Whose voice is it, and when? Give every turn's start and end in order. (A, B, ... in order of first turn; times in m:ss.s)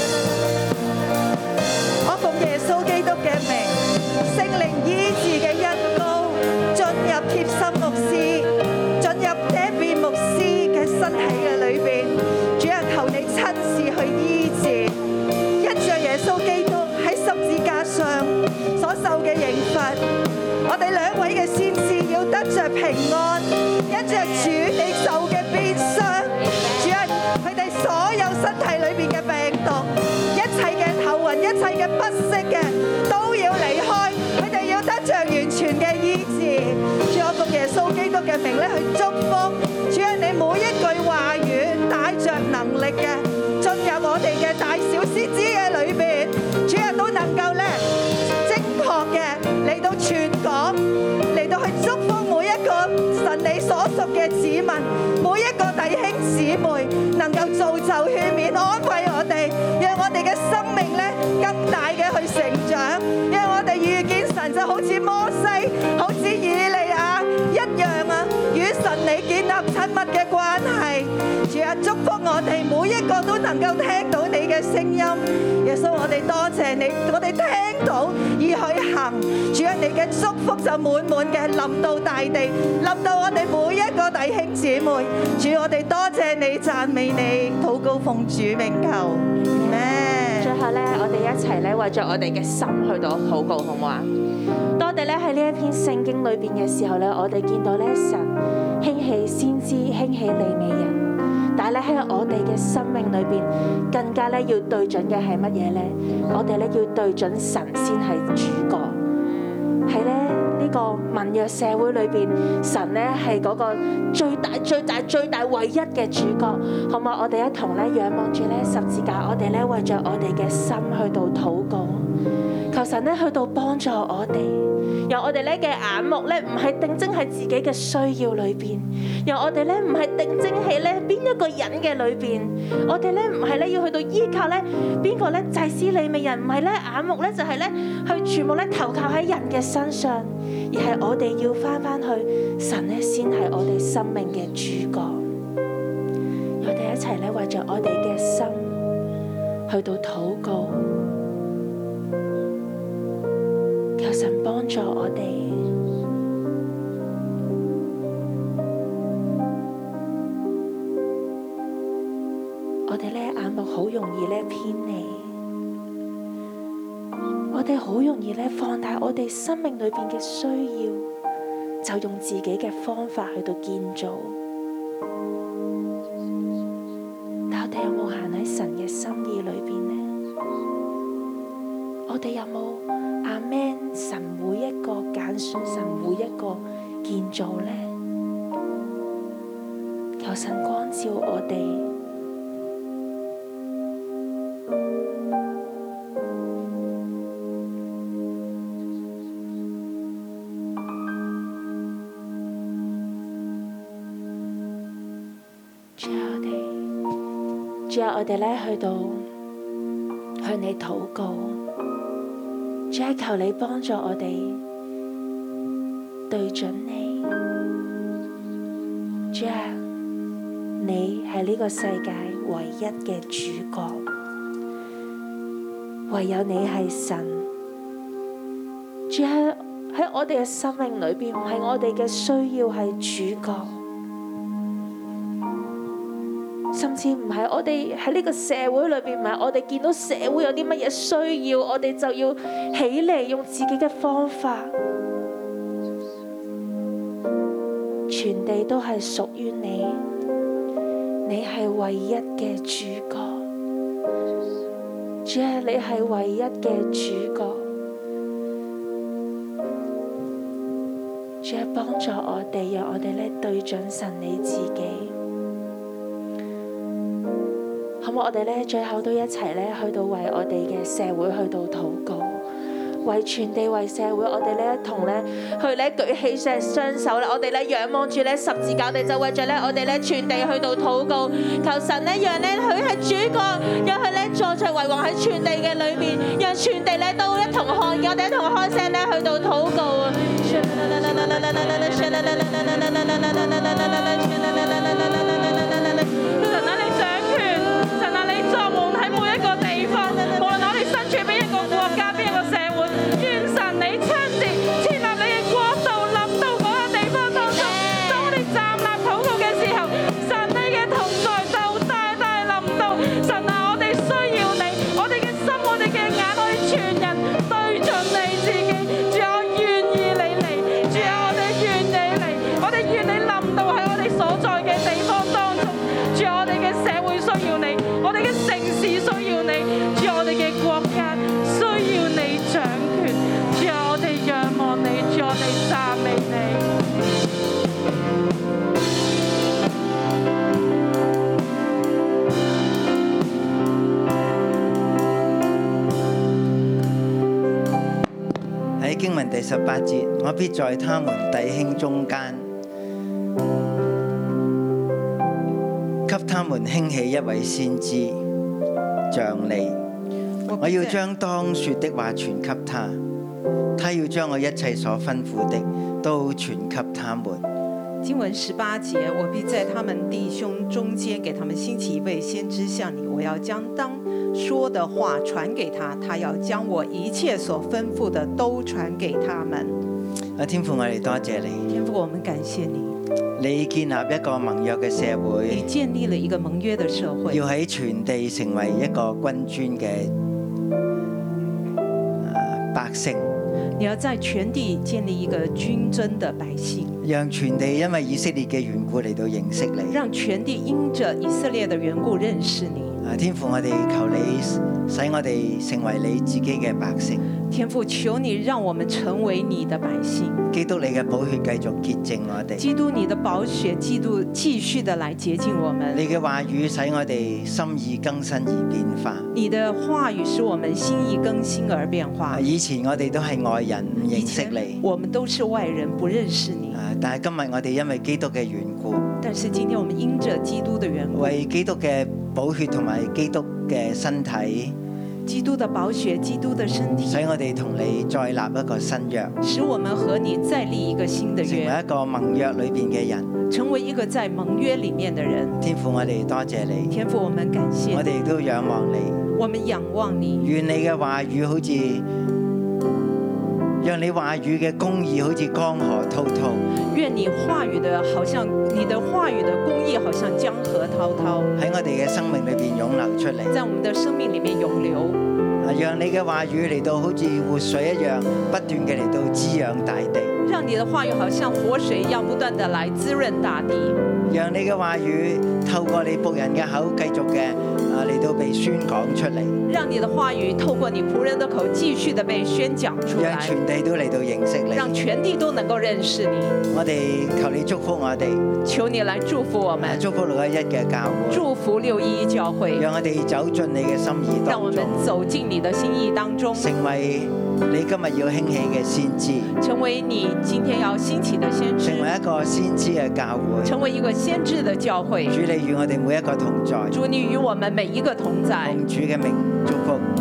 0:02.0-0:15.0 A
0:15.6-0:20.0 A
0:20.6-0:47.8 A
0:48.4-1:30.5 A
1:29.4-1:34.1 B
1:34.8-1:41.0 B
1:41.6-1:49.0 B
1:49.8-2:02.1 B
2:02.7-2:25.3 B
2:26.6-2:28.8 B
2:29.7-2:30.9 B
2:34.0-2:35.7 B
2:42.9-2:45.4 B
2:47.5-2:51.1 B
2:51.8-2:54.4 B
2:57.5-3:00.1 B
3:02.1-3:07.9 B
3:10.2-3:11.9 B
3:26.0-3:26.8 B
3:27.9-3:29.3 B
3:30.4-3:31.6 B
3:32.9-3:34.6 B
3:36.3-3:37.3 B
3:39.3-3:39.8 B
3:40.8-3:44.1 B
3:46.1-3:47.5 B
3:49.1-3:53.8 B
3:56.7-4:04.7 B
4:08.1-4:10.0 B
4:11.2-4:13.5 B
4:15.2-4:17.7 B
4:21.4-4:25.2 B
4:28.0-4:32.5 B
4:33.0-4:55.9 B
4:56.2-5:36.7 C
5:48.8-5:52.5 D
5:56.0-5:58.2 D
5:59.1-5:59.8 D
6:00.5-6:01.0 E
6:00.6-6:03.0 D
6:03.8-6:07.4 D
6:08.0-6:19.7 E
6:20.4-6:21.7 D
6:21.7-6:23.0 E
6:23.4-6:25.7 D
6:25.5-6:27.4 E
6:27.3-6:30.1 D
6:32.2-6:33.3 D
6:33.8-6:37.0 E
6:37.0-6:40.0 D
6:39.9-6:43.0 E
6:43.0-6:47.2 D
6:47.5-6:50.4 E
6:50.5-6:52.7 D
6:52.6-6:56.0 E
6:55.9-6:59.3 D
6:59.3-7:02.4 E
7:02.3-7:04.8 D
7:04.0-7:06.8 E
7:06.7-7:09.0 D
7:09.2-7:11.4 E
7:11.1-7:14.8 D
7:15.2-7:17.2 E
7:17.0-7:19.4 D
7:19.4-7:21.8 E
7:21.4-7:23.3 D
7:23.5-7:25.6 E
7:25.6-7:26.9 D
7:26.9-7:28.1 E
7:27.9-7:29.2 D
7:29.3-7:30.5 E
7:30.4-7:32.1 D
7:33.8-7:36.6 D
7:36.9-7:41.5 E
7:41.6-7:43.6 D
7:43.5-7:45.2 E
7:45.6-7:50.3 D
7:50.4-7:54.0 E
7:54.3-7:59.6 D
7:59.6-8:03.5 E
8:03.1-8:05.0 D
8:04.7-8:06.6 E
8:06.7-8:08.5 D
8:08.6-8:10.0 E
8:09.8-8:11.5 D
8:11.3-8:12.8 E
8:12.7-8:15.0 D
8:14.5-8:16.7 E
8:16.5-8:19.5 D
8:19.6-8:22.1 E
8:21.8-8:23.9 D
8:23.6-8:25.4 E
8:25.3-8:27.0 D
8:26.9-8:28.8 E
8:28.6-8:30.1 D